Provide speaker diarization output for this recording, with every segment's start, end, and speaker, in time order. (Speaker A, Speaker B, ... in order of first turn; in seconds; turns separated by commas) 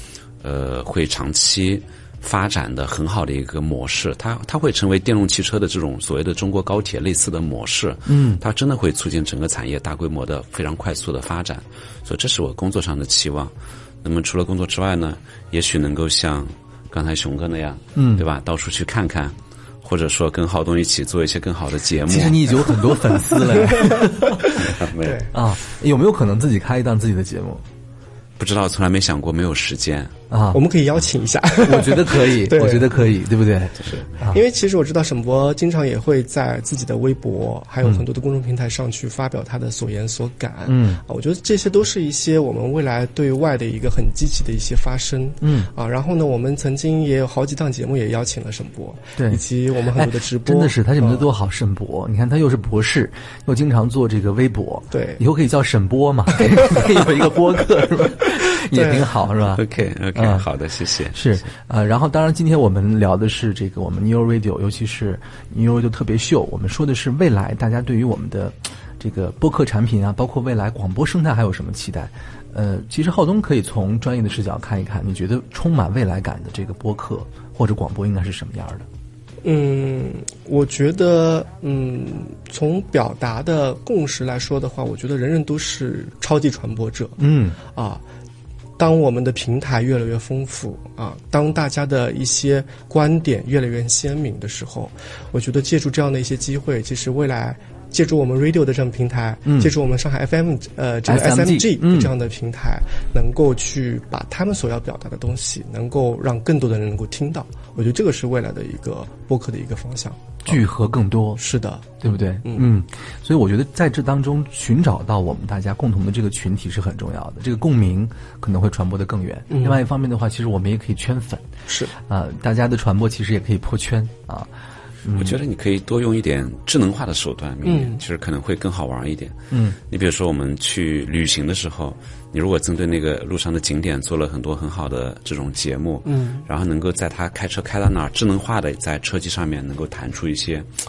Speaker A: 0.4-22.7, Speaker B: 8.1-8.4, Speaker B: 17.9-18.2, Speaker B: 22.1-24.7, Speaker C: 23.5-24.4, Speaker A: 24.6-25.1, Speaker C: 25.0-25.3, Speaker B: 25.3-27.6, Speaker A: 28.4-30.2, Speaker B: 30.3-30.6, Speaker C: 30.5-33.0, Speaker B: 31.6-34.4, Speaker C: 33.9-51.2, Speaker B: 40.7-41.0, Speaker B: 45.4-45.7, Speaker B: 49.2-49.4, Speaker B: 49.9-60.5, Speaker C: 54.9-55.2, Speaker C: 58.7-59.1, Speaker A: 59.5-61.2, Speaker B: 61.1-78.9, Speaker C: 79.4-88.0, Speaker B: 87.2-87.6, Speaker C: 88.8-110.6, Speaker B: 99.5-99.7, Speaker B: 101.0-102.1, Speaker B: 110.5-111.4, Speaker C: 111.4-112.7, Speaker B: 112.0-121.5, Speaker C: 119.5-119.8, Speaker C: 121.7-121.9, Speaker B: 122.1-124.5, Speaker B: 125.0-125.4, Speaker A: 125.2-129.4, Speaker C: 127.7-128.0, Speaker B: 129.5-129.8, Speaker A: 129.9-140.7, Speaker C: 136.1-136.4